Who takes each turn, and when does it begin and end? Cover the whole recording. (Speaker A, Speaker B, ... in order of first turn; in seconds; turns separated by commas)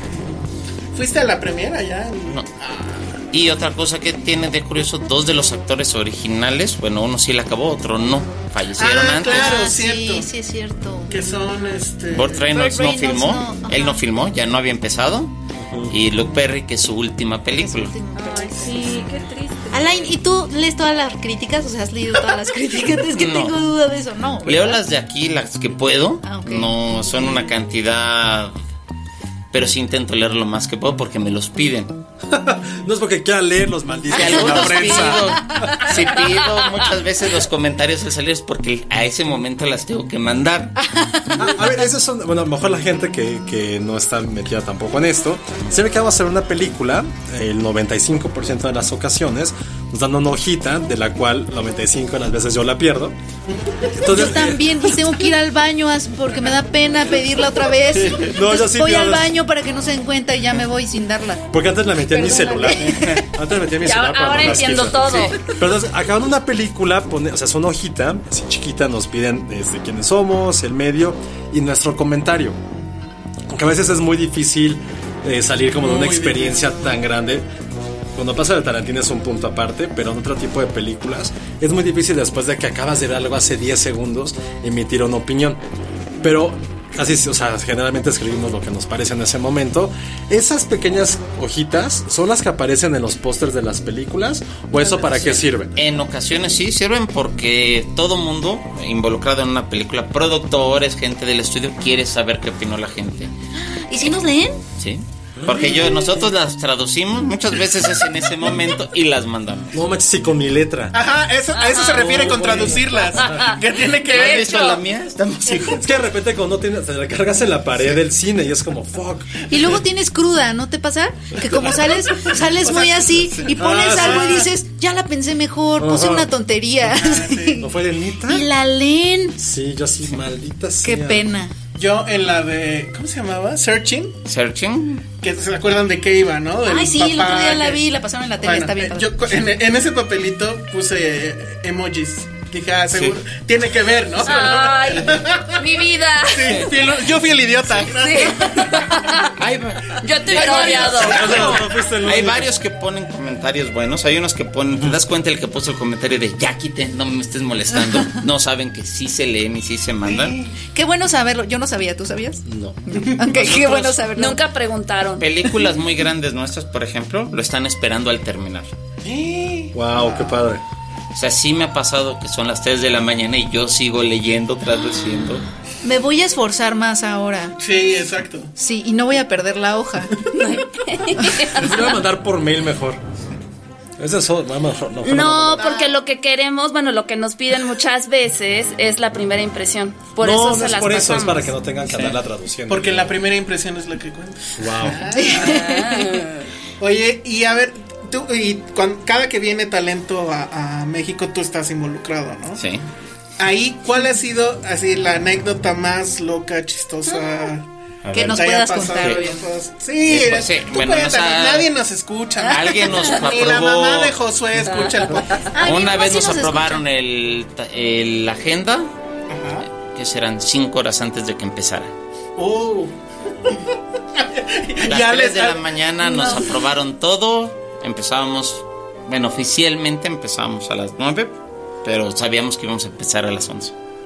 Speaker A: 0.1-3.2, Speaker B: 3.3-9.6, Speaker A: 8.8-10.3, Speaker C: 9.3-11.3, Speaker A: 11.1-12.5, Speaker B: 12.1-15.3, Speaker C: 12.5-14.0, Speaker D: 15.5-15.9, Speaker B: 15.9-17.9, Speaker C: 17.6-19.1, Speaker E: 18.1-20.2, Speaker C: 19.7-24.8, Speaker B: 23.1-23.6, Speaker B: 24.4-28.5, Speaker C: 26.2-26.7, Speaker B: 29.5-31.9, Speaker D: 32.3-35.8, Speaker B: 34.1-40.8, Speaker C: 34.3-36.4, Speaker C: 40.9-41.5, Speaker D: 41.4-53.1, Speaker A: 53.6-54.1, Speaker D: 53.9-54.8, Speaker C: 54.1-63.3, Speaker D: 58.2-59.3, Speaker D: 61.5-72.6, Speaker E: 63.8-65.6, Speaker A: 72.7-73.1, Speaker D: 73.5-77.4, Speaker A: 75.7-76.8, Speaker D: 78.1-85.6, Speaker D: 86.2-95.7, Speaker A: 94.8-95.3, Speaker B: 95.8-103.3, Speaker C: 103.6-104.6, Speaker B: 104.8-109.8, Speaker D: 105.4-105.7, Speaker D: 109.7-110.9, Speaker A: 110.9-114.7, Speaker E: 111.5-112.3, Speaker D: 112.2-113.4, Speaker E: 113.2-114.8, Speaker B: 114.1-115.8, Speaker A: 115.5-115.8, Speaker D: 115.7-119.4, Speaker C: 119.5-127.7, Speaker A: 122.1-124.5, Speaker D: 123.5-124.5, Speaker D: 125.8-126.3, Speaker A: 126.9-127.6, Speaker D: 127.6-128.4, Speaker C: 128.2-129.4, Speaker D: 129.4-131.3, Speaker C: 130.8-131.5, Speaker A: 131.8-134.2, Speaker B: 134.2-135.0, Speaker A: 135.2-137.8, Speaker C: 136.6-139.1, Speaker A: 138.4-145.6, Speaker B: 142.9-143.2, Speaker E: 144.2-147.0, Speaker A: 146.3-148.9, Speaker E: 147.7-149.3, Speaker B: 149.4-160.3, Speaker E: 150.0-151.5, Speaker A: 150.3-151.7, Speaker D: 151.0-152.5, Speaker A: 160.0-160.5, Speaker C: 160.7-164.4, Speaker D: 162.4-162.8, Speaker B: 163.3-164.0, Speaker E: 164.2-165.3, Speaker B: 165.2-168.7, Speaker A: 169.0-170.4, Speaker D: 169.7-170.6, Speaker B: 171.1-175.4, Speaker C: 175.8-177.6, Speaker A: 177.6-178.5, Speaker C: 178.6-180.2, Speaker E: 180.3-181.9, Speaker D: 181.5-183.0, Speaker D: 184.0-185.6, Speaker E: 185.0-191.5, Speaker A: 185.6-185.9, Speaker D: 190.2-193.1, Speaker A: 192.7-195.6, Speaker D: 194.6-195.0, Speaker C: 195.1-196.2, Speaker E: 195.2-196.4, Speaker A: 196.8-202.6, Speaker B: 202.6-202.8, Speaker A: 203.4-207.7, Speaker B: 208.0-209.2, Speaker C: 208.1-209.4, Speaker A: 208.2-215.9, Speaker B: 210.0-211.7, Speaker B: 212.5-214.2, Speaker B: 215.6-218.9, Speaker C: 215.6-216.8, Speaker A: 219.3-219.7, Speaker B: 219.8-221.9, Speaker A: 222.3-222.9, Speaker A: 223.4-225.7, Speaker B: 224.8-233.7, Speaker C: 226.0-226.6